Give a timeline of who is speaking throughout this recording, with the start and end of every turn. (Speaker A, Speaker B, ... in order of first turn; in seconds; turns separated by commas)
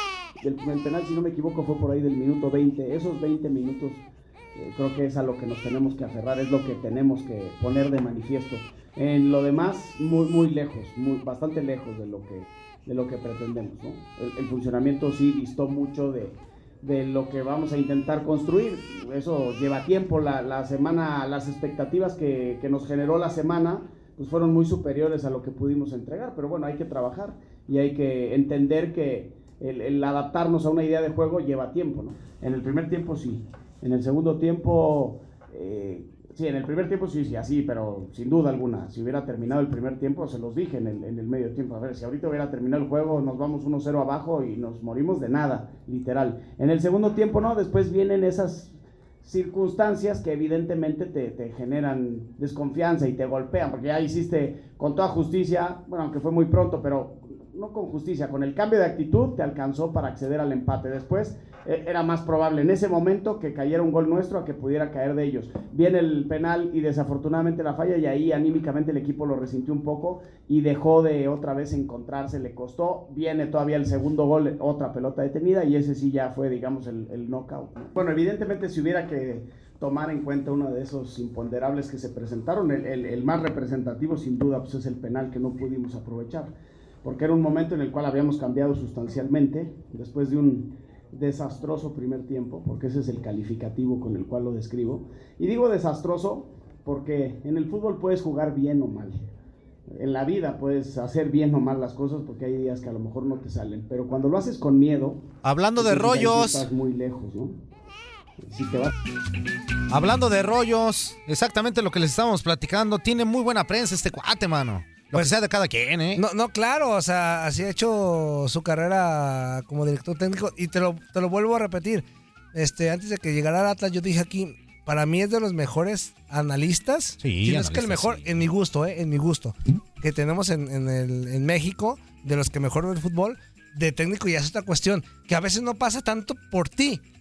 Speaker A: 0.4-4.0, Speaker A: 4.5-86.5, Speaker A: 87.0-99.3, Speaker A: 99.9-105.2, Speaker B: 105.4-106.7, Speaker A: 105.8-107.6, Speaker A: 108.4-108.9, Speaker B: 109.9-116.2, Speaker C: 116.1-137.0, Speaker B: 127.2-128.5